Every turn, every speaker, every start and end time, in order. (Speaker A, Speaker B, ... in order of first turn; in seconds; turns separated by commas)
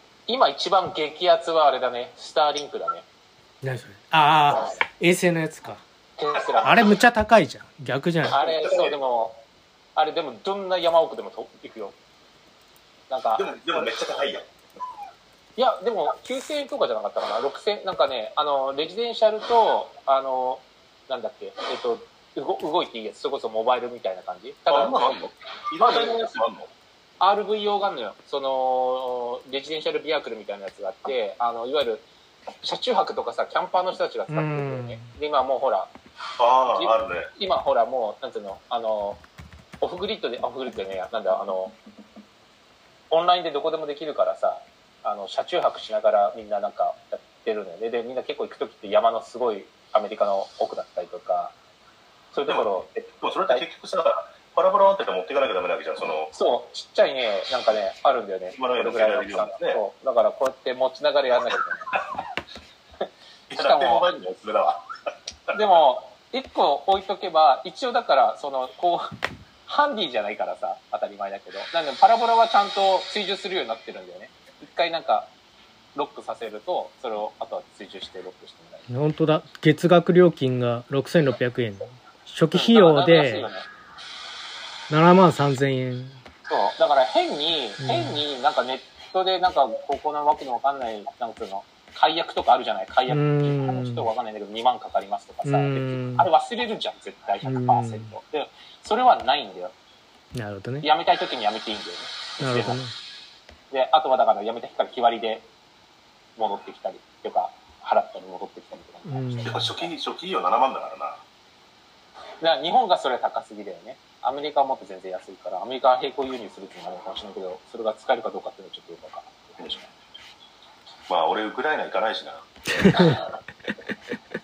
Speaker A: 0.3-3.1, Speaker B: 3.6-5.8, Speaker A: 6.2-6.9, Speaker B: 6.6-8.4, Speaker A: 8.3-9.4, Speaker C: 8.6-8.9, Speaker A: 10.0-12.0, Speaker A: 13.1-13.9, Speaker C: 13.4-14.5, Speaker A: 15.6-25.1, Speaker C: 24.7-26.7, Speaker A: 25.8-26.3, Speaker A: 27.2-32.1, Speaker A: 32.6-35.9, Speaker B: 34.3-35.1, Speaker C: 36.4-37.3, Speaker A: 36.7-39.2, Speaker A: 39.8-41.8, Speaker A: 43.1-51.5, Speaker A: 52.3-53.6, Speaker C: 53.2-56.3, Speaker A: 56.3-62.0, Speaker C: 58.5-59.8, Speaker C: 63.5-64.8, Speaker A: 63.5-64.1, Speaker A: 65.5-69.1, Speaker A: 69.7-75.3, Speaker A: 76.0-78.9, Speaker B: 78.9-83.5, Speaker A: 82.5-83.7, Speaker B: 84.9-86.2, Speaker A: 86.5-99.7, Speaker B: 87.8-88.2, Speaker B: 93.1-94.1, Speaker B: 95.4-96.3, Speaker B: 97.4-98.1, Speaker B: 100.3-100.9, Speaker A: 100.8-102.8, Speaker B: 102.4-102.9, Speaker A: 103.7-105.5, Speaker A: 106.4-109.9, Speaker B: 109.1-109.7, Speaker C: 109.5-111.2, Speaker A: 112.4-119.9, Speaker C: 121.1-122.5, Speaker B: 122.8-123.2, Speaker A: 123.0-123.2